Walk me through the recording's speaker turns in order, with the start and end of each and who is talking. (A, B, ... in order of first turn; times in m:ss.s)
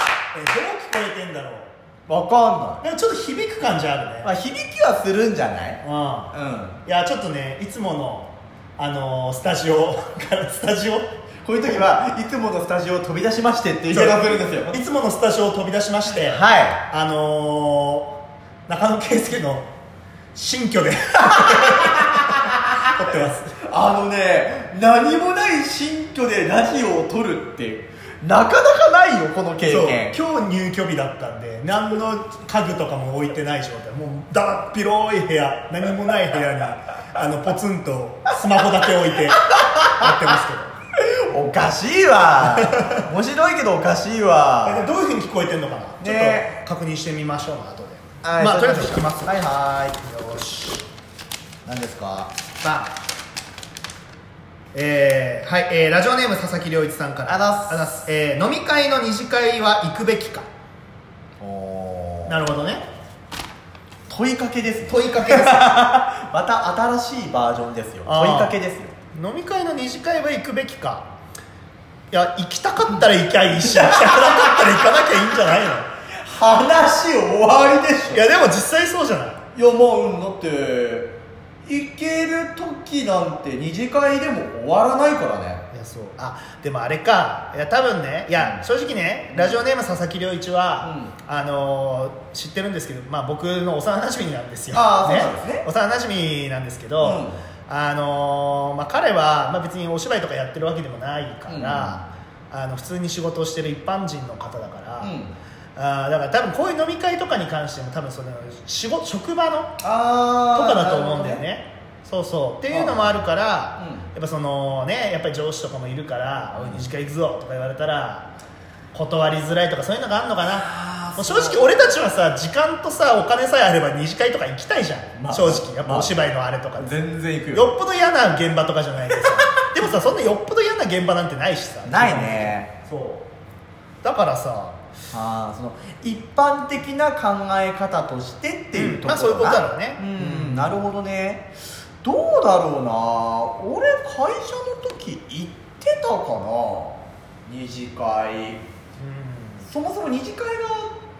0:00.3-0:01.7 A
0:02.1-0:02.8 B
0:02.8-0:04.3 A
0:04.2-0:06.8 B
0:05.8-0:06.3 A
0:06.8-0:11.1 A
0:11.4-0:14.8 B
0:13.9-0:18.2 A
0:16.1-0:16.8 B
0:18.7-0:19.7 A
0:20.3-0:23.6 A
0:21.3-0:22.9 B
0:23.6-0:30.1 B
0:29.6-0:40.8 A
0:39.3-0:40.4 B
0:41.0-0:44.9 B
0:42.4-0:43.0 A
0:44.6-0:49.4 A
0:46.0-0:46.5 B
0:48.2-0:50.0 B
0:50.0-0:50.8 A
0:51.6-0:52.3 B
0:52.6-0:52.9 A
0:54.7-1:00.5 A
0:57.3-0:57.9 B
1:01.4-1:02.4 B
1:02.2-1:02.8 A
1:04.1-1:08.9 B
1:04.9-1:05.8 A
1:08.0-1:08.6 A
1:09.1-1:11.0 A
1:12.1-1:15.9 A
1:13.5-1:18.3 B
1:18.1-1:19.4 A
1:19.5-1:25.6 B
1:25.7-1:45.1 A
1:28.4-1:28.6 B
1:29.3-1:29.6 B
1:30.8-1:31.1 B
1:34.7-1:35.6 B
1:37.0-1:37.4 B
1:41.5-1:42.0 B
1:45.0-1:45.4 B
1:45.8-1:49.8 A
1:49.8-1:51.4 B
1:50.5-1:58.3 A
1:52.7-1:53.2 B
1:53.8-1:54.1 B
1:56.5-1:56.9 B
1:58.9-2:07.0 A
2:00.5-2:01.9 B
2:05.2-2:06.1 B
2:06.8-2:07.7 B
2:07.5-2:13.2 A
2:11.8-2:12.7 B
2:14.0-2:14.8 A
2:15.1-2:21.5 B
2:18.7-2:20.7 A
2:22.0-2:28.6 B
2:29.0-2:29.7 A
2:29.6-2:31.0 B